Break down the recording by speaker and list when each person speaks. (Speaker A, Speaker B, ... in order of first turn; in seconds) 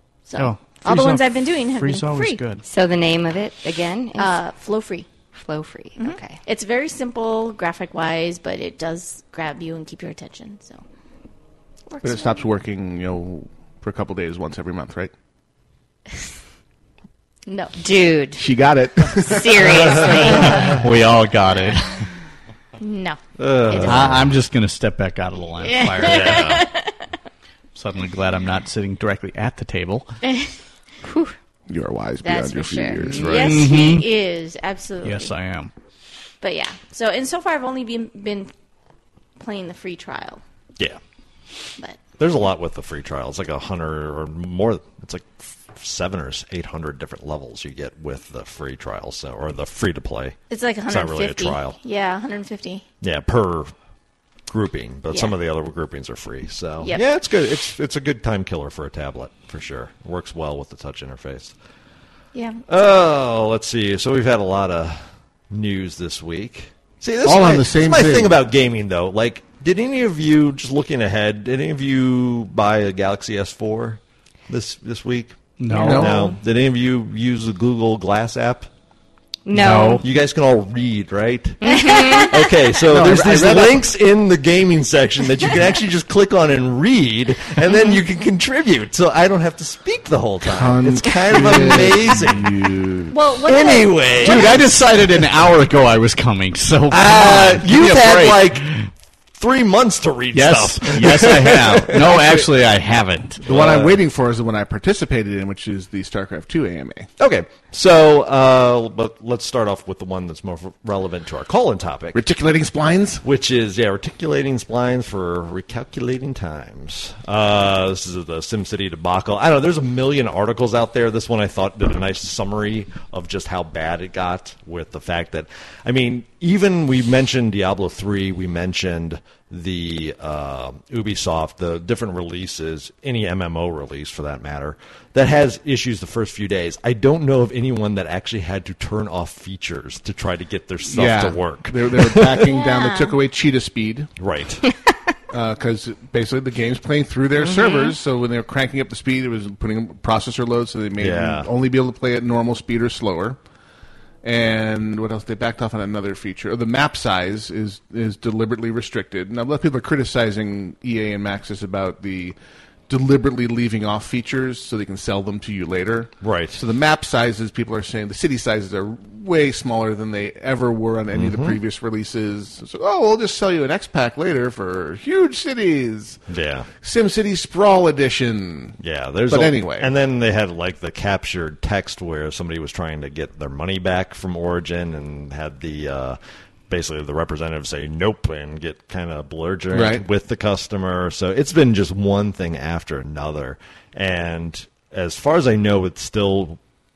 Speaker A: 0.3-2.4, 4.2-5.1, 6.0-10.8, 11.9-12.4, 17.5-17.7, 22.8-24.0, 25.6-26.9, 30.2-30.5, 32.2-35.3, 36.4-38.5, 39.4-40.4, 50.5-52.8, 62.3-62.6, 81.9-82.2, 93.1-94.5, 142.5-143.2, 147.5-147.9
Speaker B: 0.4-2.6, 20.5-22.0, 23.7-26.6, 27.7-30.1, 33.2-34.1, 35.0-35.7, 75.6-76.3, 79.5-80.0, 94.2-98.9, 100.3-103.5
Speaker C: 2.6-4.4, 5.3-6.4, 17.8-18.5, 19.2-20.5, 31.0-31.3, 79.5-80.0, 81.6-82.3
Speaker D: 12.0-15.1, 18.4-20.6, 31.7-33.7, 67.2-68.4, 75.7-76.4, 82.9-83.8, 90.4-93.1, 103.4-107.1, 112.1-113.2, 140.8-144.1, 145.3-153.4, 154.2-162.3, 162.9-176.2, 176.8-179.9, 189.7-190.0
Speaker E: 23.4-24.3, 26.0-26.7, 42.2-50.4, 50.9-51.8, 53.0-53.7, 54.5-61.5, 62.7-65.0, 65.5-78.7, 80.0-92.4, 93.4-94.7, 96.9-98.7, 99.4-102.3, 103.5-104.0, 107.2-112.2, 113.2-142.5, 144.2-144.7, 151.0-151.5, 166.2-166.6, 171.1-171.6, 176.3-176.7, 178.8-196.6